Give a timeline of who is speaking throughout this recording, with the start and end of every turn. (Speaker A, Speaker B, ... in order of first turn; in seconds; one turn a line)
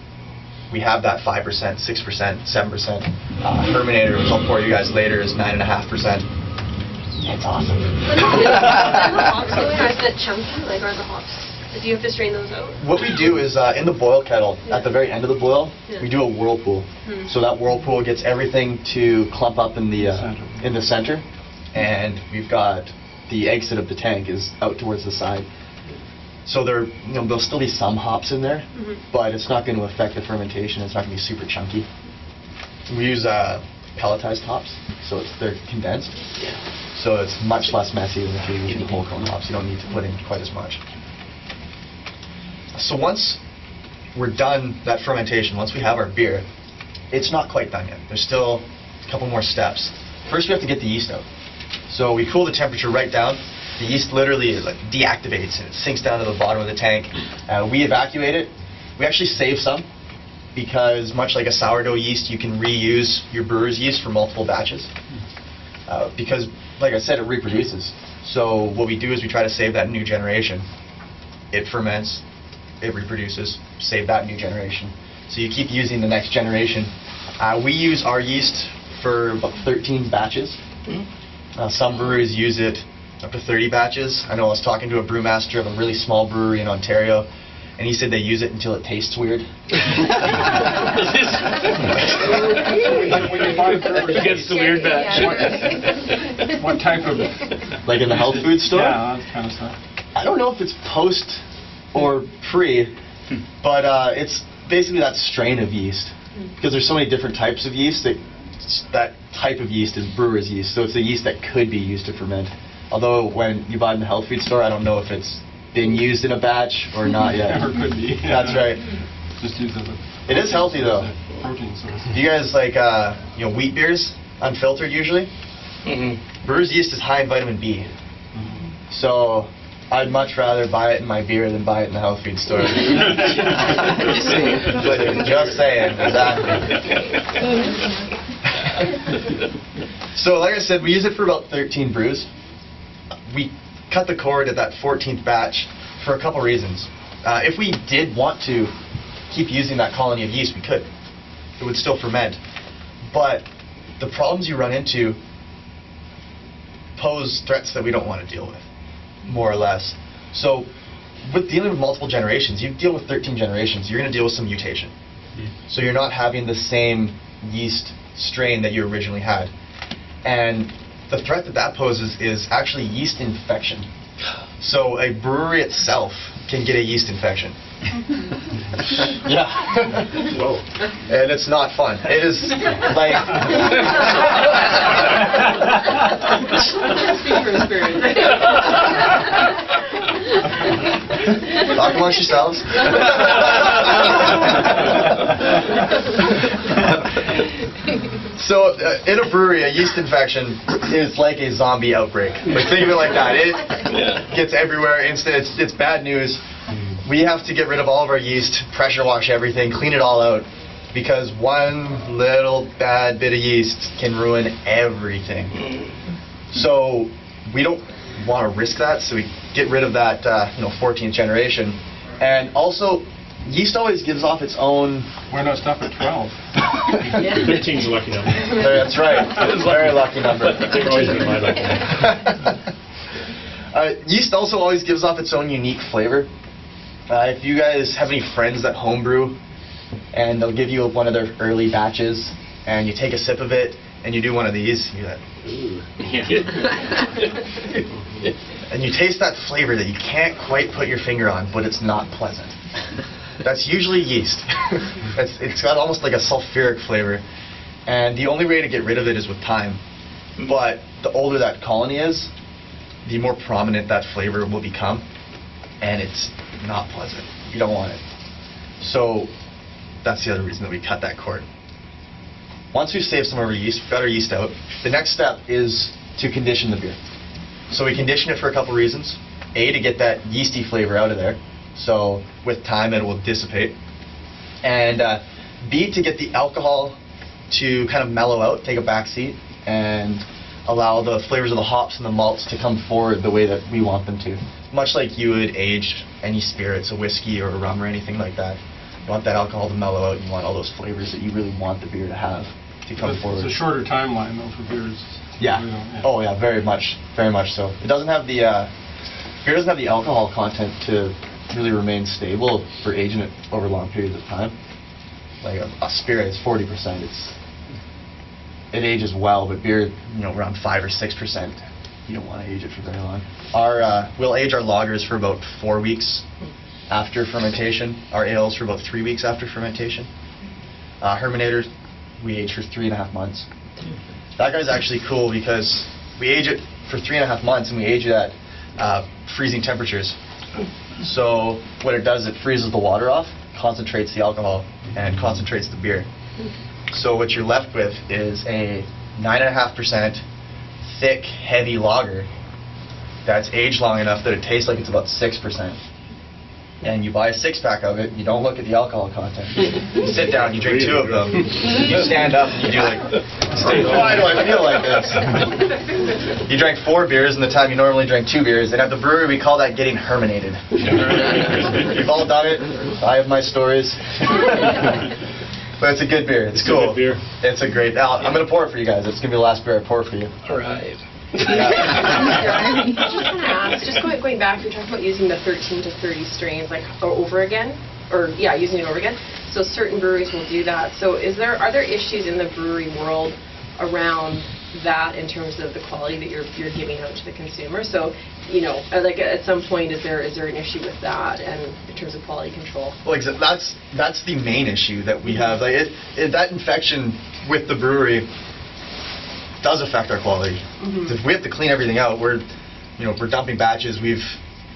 Speaker A: 0.7-6.3
Speaker A: 7.2-9.3
Speaker B: 8.1-12.8
Speaker A: 12.8-25.5
Speaker C: 20.0-20.7
Speaker A: 26.4-31.9
Speaker A: 32.9-36.2
Speaker A: 36.9-40.8
Speaker A: 42.7-43.4
Speaker A: 44.1-46.4
Speaker A: 47.1-51.2
Speaker A: 51.9-59.9
Speaker A: 60.5-64.9
Speaker A: 65.9-70.7
Speaker A: 71.5-72.2
Speaker A: 72.8-80.6
Speaker A: 81.5-89.5
Speaker C: 92.6-97.3
Speaker D: 93.9-95.5
Speaker A: 97.8-99.0
Speaker C: 97.8-99.8
Speaker A: 100.1-101.4
Speaker A: 101.9-102.9
Speaker A: 103.6-118.8
Speaker C: 117.3-118.8
Speaker C: 119.4-122.2
Speaker A: 120.3-121.1
Speaker A: 122.1-125.3
Speaker D: 125.8-126.2
Speaker A: 126.4-127.9
Speaker A: 128.9-136.7
Speaker A: 140.1-142.3
Speaker A: 143.3-148.7
Speaker A: 149.3-150.9
Speaker A: 151.6-152.4
Speaker A: 153.1-153.4
Speaker A: 154.0-155.2
Speaker A: 157.0-158.6
Speaker A: 159.2-160.7
Speaker A: 161.2-164.9
Speaker A: 165.7-169.5
Speaker A: 170.2-173.9
Speaker A: 174.6-177.6
Speaker A: 179.0-180.3
Speaker A: 181.1-184.1
Speaker B: 186.8-188.7
Speaker A: 191.6-193.7
Speaker A: 198.3-206.4
Speaker D: 203.9-204.2
Speaker A: 207.0-215.6
Speaker A: 216.5-225.1
Speaker C: 225.3-226.4
Speaker C: 227.0-227.6
Speaker A: 228.6-231.4
Speaker A: 232.0-232.3
Speaker A: 233.7-236.3
Speaker A: 237.1-239.4
Speaker A: 240.1-245.2
Speaker D: 246.0-246.6
Speaker A: 248.7-252.6
Speaker A: 253.4-257.2
Speaker A: 257.9-259.8
Speaker A: 260.4-262.3
Speaker A: 263.0-265.0
Speaker A: 265.8-268.0
Speaker A: 268.8-269.3
Speaker A: 270.0-271.4
Speaker A: 272.7-277.0
Speaker A: 277.7-283.7
Speaker A: 284.6-287.0
Speaker A: 287.5-303.6
Speaker C: 303.0-306.1
Speaker A: 305.4-308.7
Speaker A: 309.4-314.5
Speaker A: 315.4-317.3
Speaker A: 318.7-326.2
Speaker A: 326.9-330.1
Speaker A: 331.0-331.7
Speaker A: 332.2-333.5
Speaker A: 334.4-340.1
Speaker A: 341.0-346.1
Speaker A: 346.9-350.2
Speaker A: 350.8-352.3
Speaker A: 353.2-355.8
Speaker A: 356.8-365.5
Speaker A: 366.4-374.4
Speaker A: 375.8-380.3
Speaker D: 380.4-382.1
Speaker A: 381.4-382.3
Speaker B: 381.7-403.0
Speaker A: 403.0-408.2
Speaker A: 409.6-412.4
Speaker B: 410.8-411.1
Speaker A: 413.0-414.4